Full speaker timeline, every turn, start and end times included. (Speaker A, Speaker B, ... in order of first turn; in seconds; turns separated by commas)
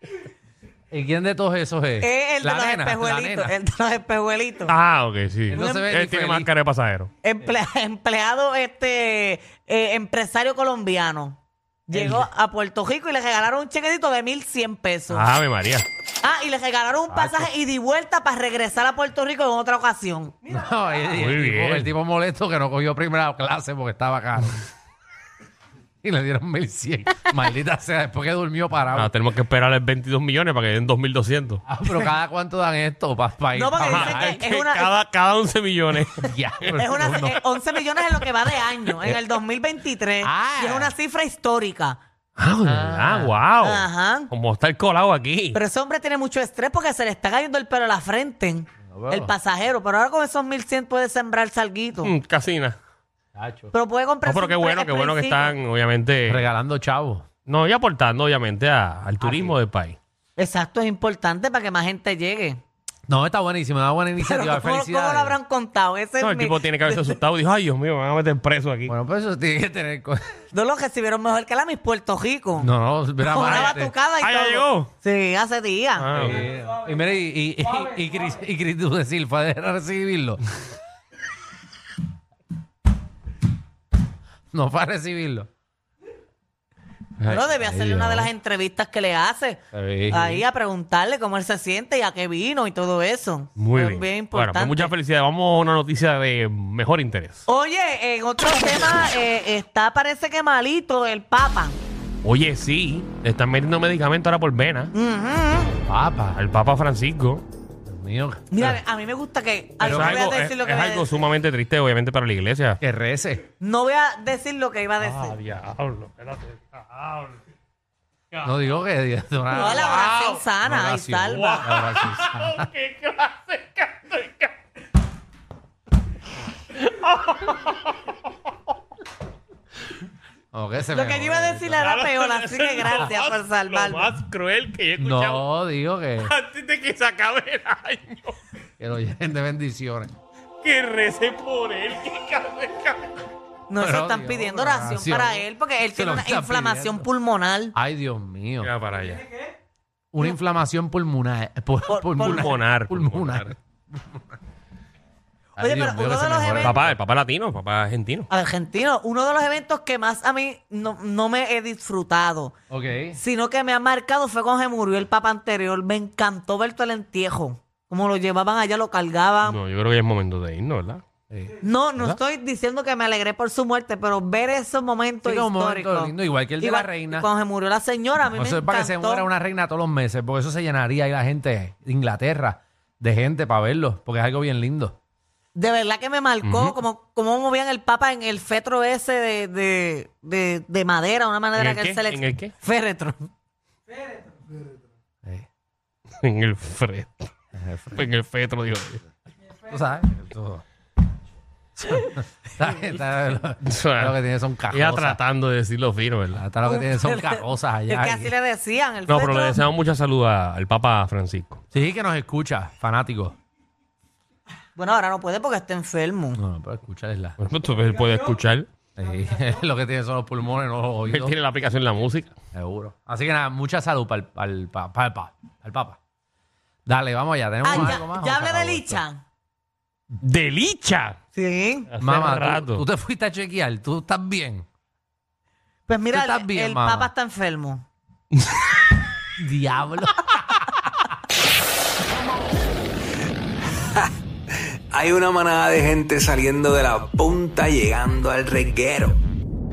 Speaker A: 0.9-3.5, Speaker B: 2.0-4.7, Speaker C: 4.7-7.1, Speaker A: 5.5-6.5, Speaker B: 5.5-5.9, Speaker B: 7.2-15.3, Speaker C: 15.1-15.8, Speaker B: 16.2-20.4, Speaker A: 17.1-17.5, Speaker A: 20.4-24.6, Speaker C: 21.0-21.9, Speaker A: 26.0-29.1, Speaker C: 28.9-31.6, Speaker A: 31.7-34.5, Speaker B: 33.5-34.9, Speaker C: 33.8-36.7, Speaker A: 36.2-37.5, Speaker B: 36.7-42.0, Speaker A: 40.2-40.9, Speaker C: 42.4-45.6, Speaker A: 42.6-43.4, Speaker B: 43.6-44.3, Speaker B: 45.5-52.1, Speaker A: 48.9-49.3, Speaker C: 52.0-52.8, Speaker A: 53.3-53.7, Speaker B: 53.7-55.5, Speaker C: 54.2-56.5, Speaker A: 56.3-57.2, Speaker C: 57.5-60.0, Speaker A: 59.2-59.5, Speaker B: 60.4-62.6, Speaker A: 63.1-65.4, Speaker B: 64.2-67.2, Speaker C: 66.2-68.9, Speaker A: 68.9-70.2, Speaker B: 70.5-76.3, Speaker A: 72.6-73.9, Speaker C: 73.4-74.9, Speaker C: 76.0-76.5, Speaker A: 76.1-80.4, Speaker A: 84.5-85.5, Speaker B: 87.2-94.9, Speaker A: 87.5-88.3, Speaker A: 89.7-90.4, Speaker C: 93.6-97.4, Speaker B: 97.5-101.8, Speaker C: 102.2-104.9, Speaker B: 104.9-105.7, Speaker A: 105.8-106.4, Speaker C: 106.3-107.4, Speaker A: 107.8-108.8, Speaker B: 108.5-111.1, Speaker A: 109.8-110.3, Speaker C: 109.8-112.8, Speaker A: 112.8-113.5, Speaker B: 113.6-115.3, Speaker C: 115.0-117.4, Speaker A: 118.4-122.7, Speaker C: 119.5-120.4, Speaker B: 119.5-121.7, Speaker C: 121.3-124.5, Speaker C: 126.7-128.2, Speaker A: 130.5-131.9, Speaker B: 130.9-134.1, Speaker C: 131.8-135.4, Speaker A: 135.0-136.3, Speaker C: 136.2-138.4, Speaker A: 138.8-140.1, Speaker C: 140.6-143.2, Speaker B: 143.7-147.7, Speaker A: 143.8-147.1, Speaker A: 147.7-148.7, Speaker C: 148.6-149.3, Speaker A: 150.1-153.5, Speaker B: 151.9-152.5, Speaker C: 152.2-153.5, Speaker B: 155.6-156.8, Speaker A: 155.6-156.9, Speaker C: 156.6-158.3, Speaker B: 158.3-162.5, Speaker A: 162.7-163.2, Speaker B: 163.1-169.6, Speaker C: 169.4-171.0, Speaker A: 171.3-171.6, Speaker B: 171.6-179.3, Speaker A: 175.2-177.3, Speaker A: 178.3-184.9, Speaker B: 185.5-193.3, Speaker C: 186.4-186.8, Speaker C: 191.6-192.5, Speaker C: 196.2-197.3, Speaker A: 197.5-198.0, Speaker C: 197.9-199.0, Speaker A: 199.6-200.6, Speaker A: 201.8-205.2, Speaker C: 203.6-204.2, Speaker C: 204.7-206.4, Speaker A: 206.3-208.3, Speaker B: 206.6-209.6, Speaker C: 209.1-211.6, Speaker A: 211.7-213.3, Speaker B: 214.8-216.4, Speaker A: 216.3-217.4, Speaker C: 217.4-218.7, Speaker A: 218.9-221.3, Speaker C: 221.1-222.3, Speaker A: 222.5-226.0, Speaker A: 226.8-229.0, Speaker B: 227.6-229.2, Speaker C: 230.2-231.2, Speaker B: 231.3-231.9, Speaker C: 231.9-232.8, Speaker A: 232.0-234.7, Speaker B: 235.9-237.8, Speaker A: 236.1-237.1, Speaker A: 239.4-240.7, Speaker D: 244.5-249.2